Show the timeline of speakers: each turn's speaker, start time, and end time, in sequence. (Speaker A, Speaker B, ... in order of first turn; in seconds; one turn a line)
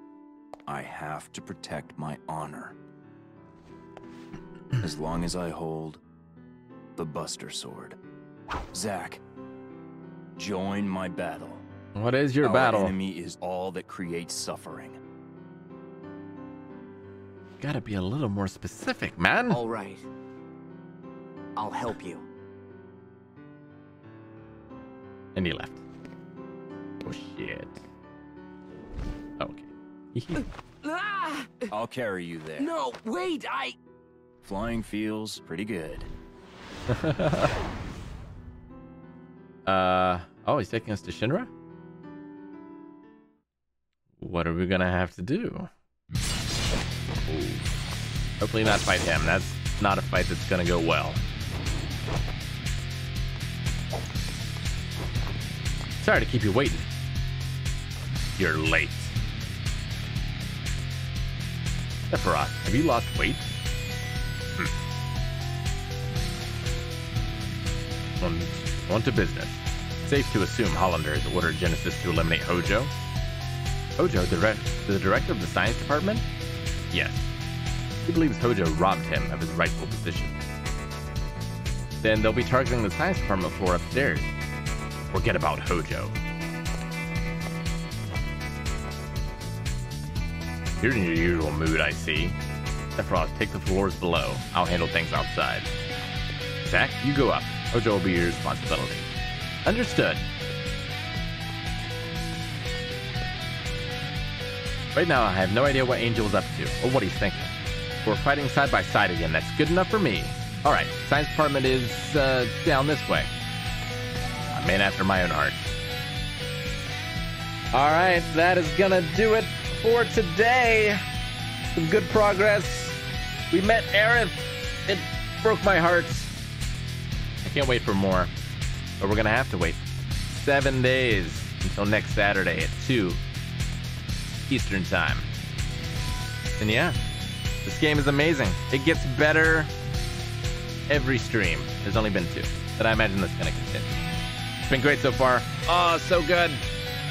Speaker A: 0.7-2.8
Speaker A: 4.8-6.0
Speaker A: 7.0-8.0
Speaker A: 8.7-9.2
Speaker A: 10.4-11.7
Speaker B: 11.9-12.9
Speaker A: 12.4-15.0
Speaker B: 17.6-19.6
Speaker C: 19.5-20.1
Speaker C: 21.6-22.3
Speaker B: 25.4-25.8
Speaker B: 27.0-27.8
Speaker B: 29.4-30.4
Speaker C: 30.8-31.7
Speaker A: 31.7-32.7
Speaker C: 32.6-33.8
Speaker A: 34.4-36.1
Speaker B: 36.9-37.5
Speaker B: 39.7-41.5
Speaker B: 44.2-45.7
Speaker B: 47.2-47.7
Speaker B: 48.4-51.2
Speaker B: 56.0-56.9
Speaker B: 58.4-59.1
Speaker B: 62.1-63.5
Speaker B: 68.2-72.9
Speaker B: 74.0-76.2
Speaker B: 76.9-77.3
Speaker B: 78.0-80.4
Speaker B: 82.0-84.3
Speaker B: 85.1-86.2
Speaker B: 90.8-92.4
Speaker B: 93.0-95.7
Speaker B: 96.7-99.1
Speaker B: 99.7-100.2
Speaker B: 104.9-113.3
Speaker B: 114.5-115.8
Speaker B: 117.7-121.0
Speaker B: 121.8-126.3
Speaker B: 127.4-128.3
Speaker B: 129.0-133.2
Speaker B: 134.5-135.3
Speaker B: 136.6-137.0
Speaker B: 137.7-139.7
Speaker B: 140.9-144.0
Speaker B: 144.7-146.7